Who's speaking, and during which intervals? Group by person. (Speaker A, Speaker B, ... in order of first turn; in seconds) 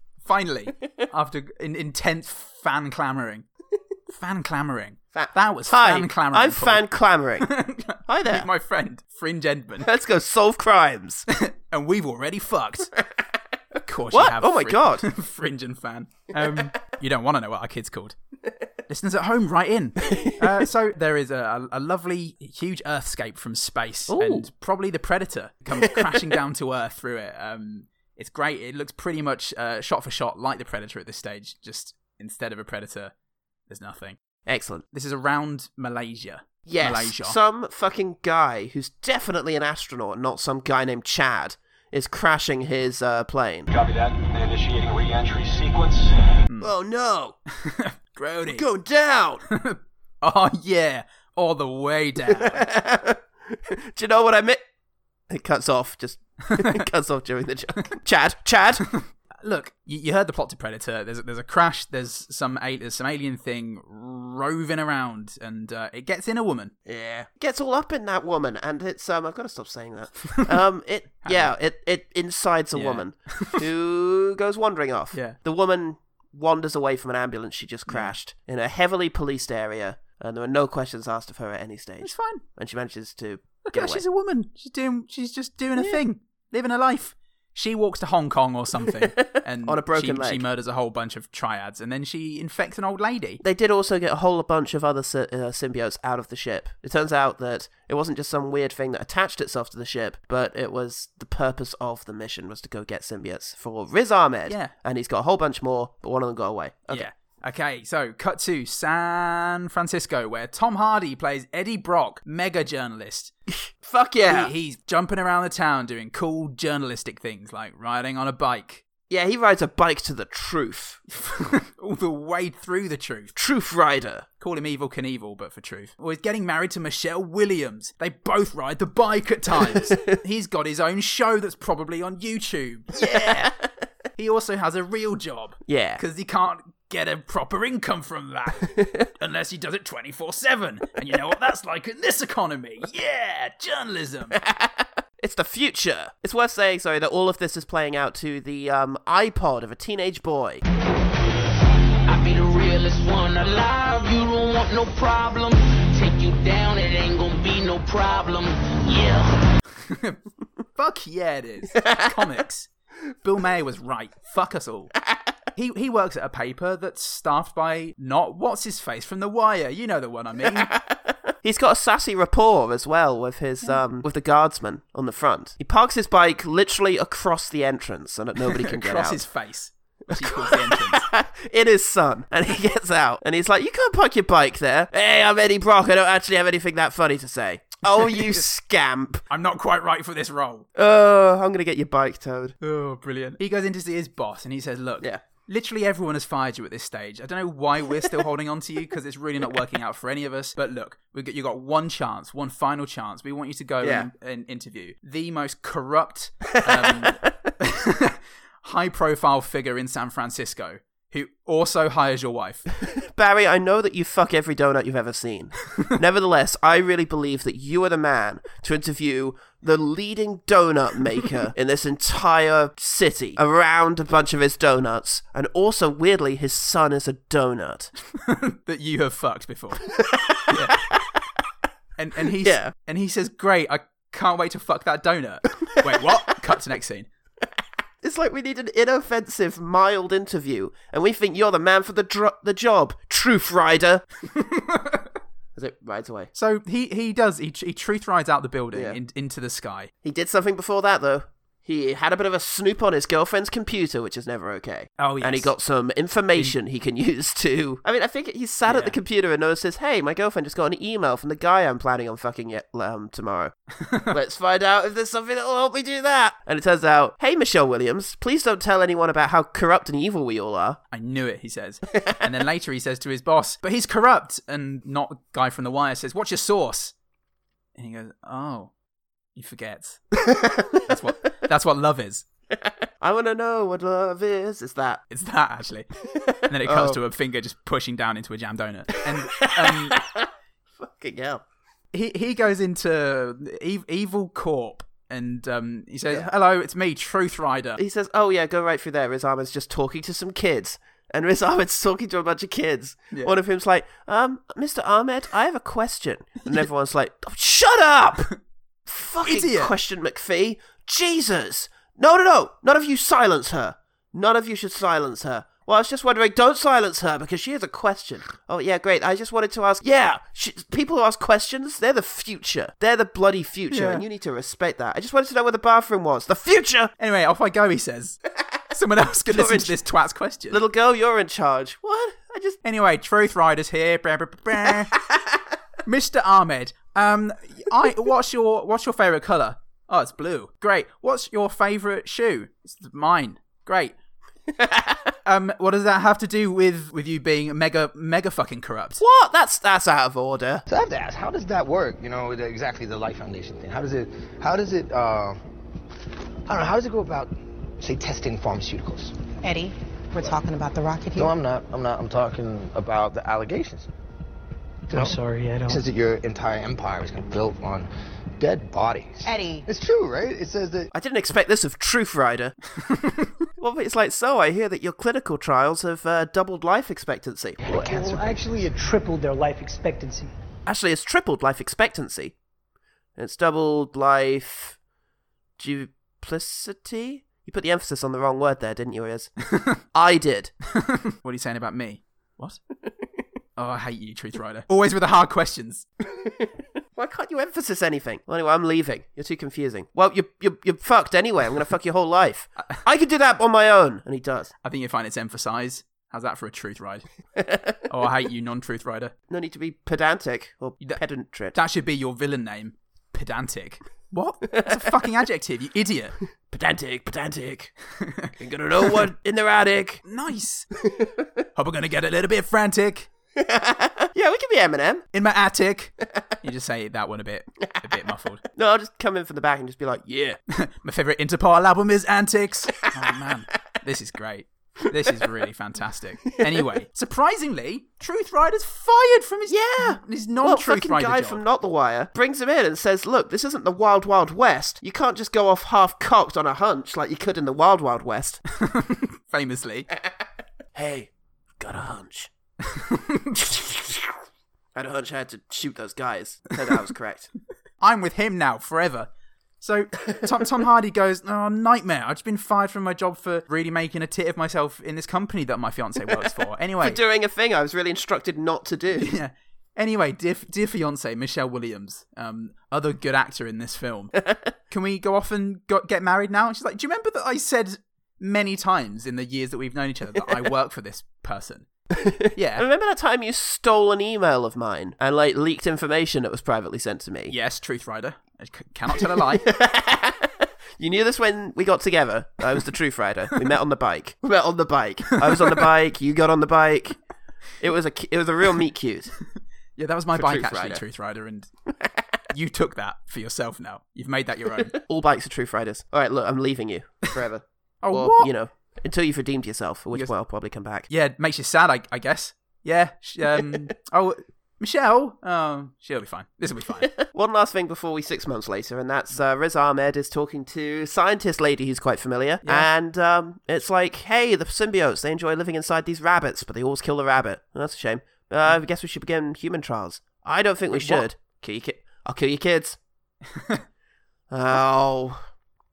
Speaker A: 0.2-3.5, 4.1-6.8, 7.4-9.9, 11.3-12.9, 13.9-18.1, 18.9-33.1, 33.7-34.2, 34.9-37.4, 47.5-48.6, 49.5-52.6, 56.5-56.8, 58.9-66.7, 71.2-71.5, 72.8-73.7, 75.1-75.4, 77.9-78.1, 82.0-82.4, 83.7-93.4, 104.5-104.7, 106.9-113.3, 114.3-118.8, 121.2-123.3, 124.4-133.6, 134.2-144.4, 159.8-160.2, 160.8-162.7, 163.2-164.9, 165.6-170.7, 178.5-181.1, 188.1-188.4, 189.3-190.7, 192.6-212.7, 228.2-230.8, 232.0-237.1, 244.4-245.0, 246.3-249.9, 255.0-255.5, 258.7-259.0, 263.8-264.1, 270.9-276.9, 277.8-278.7, 279.4-280.2, 280.8-282.3, 285.1-285.9, 286.5-290.0, 291.9-297.8, 309.2-309.7, 323.7-324.1, 327.0-328.2, 328.7-330.6, 332.6-335.0, 335.9-344.0, 345.2-349.0, 390.7-392.6, 393.6-395.9, 404.6-407.1, 407.9-409.1, 411.5-416.2, 418.0-419.1, 420.1-420.7, 421.6-423.1, 425.1-428.4, 430.5-441.4, 448.6-449.9, 452.6-454.0, 457.8-459.1, 459.6-467.0, 469.0-481.7, 482.4-482.7, 487.3-489.5, 495.2-495.6, 499.8-501.5, 502.3-504.8, 507.8-508.3, 510.9-516.9, 530.7-531.1, 533.4-533.6
Speaker B: 5.1-7.5, 8.1-8.5, 9.8-11.3, 14.1-15.1, 20.1-20.4, 24.1-24.5, 25.8-26.0, 34.5-34.8, 36.7-43.7, 46.6-47.4, 48.5-49.5, 52.3-54.6, 55.3-58.9, 66.9-84.0, 89.2-90.4, 93.4-107.1, 113.8-114.5, 119.1-121.0, 123.4-124.2, 129.7-130.2, 135.7-136.0, 144.3-150.6, 161.8-162.1, 170.6-179.2, 180.1-189.2, 190.8-192.6, 203.8-204.1, 206.5-207.3, 213.1-227.9, 229.9-231.0, 232.4-232.7, 238.0-244.1, 245.6-246.3, 248.7-249.0, 250.0-263.5, 264.1-270.8, 280.3-280.8, 283.0-285.0, 286.6-287.0, 289.2-290.3, 290.8-291.4, 297.8-308.3, 308.9-326.9, 329.3-329.7, 330.5-332.6, 344.5-345.1, 349.0-350.6, 370.9-372.6, 373.6-377.6, 380.7-382.4, 383.2-384.8, 385.6-389.3, 389.9-390.5, 396.2-404.5, 407.4-407.8, 409.3-411.6, 416.5-417.7, 418.4-420.0, 420.8-421.3, 423.4-425.1, 428.6-430.4, 439.5-448.4, 450.8-452.3, 454.8-457.3, 466.8-469.1, 482.0-487.3, 489.4-497.0, 497.6-499.1, 500.1-500.8, 504.7-510.9, 516.9-532.8, 534.3-535.2
Speaker C: 43.7-46.4
Speaker D: 152.1-159.5
Speaker E: 350.7-355.4, 356.5-359.2, 361.2-363.9, 364.9-370.9, 377.6-378.6
Speaker F: 359.4-361.3, 369.2-369.7
Speaker G: 364.9-365.9, 377.7-380.3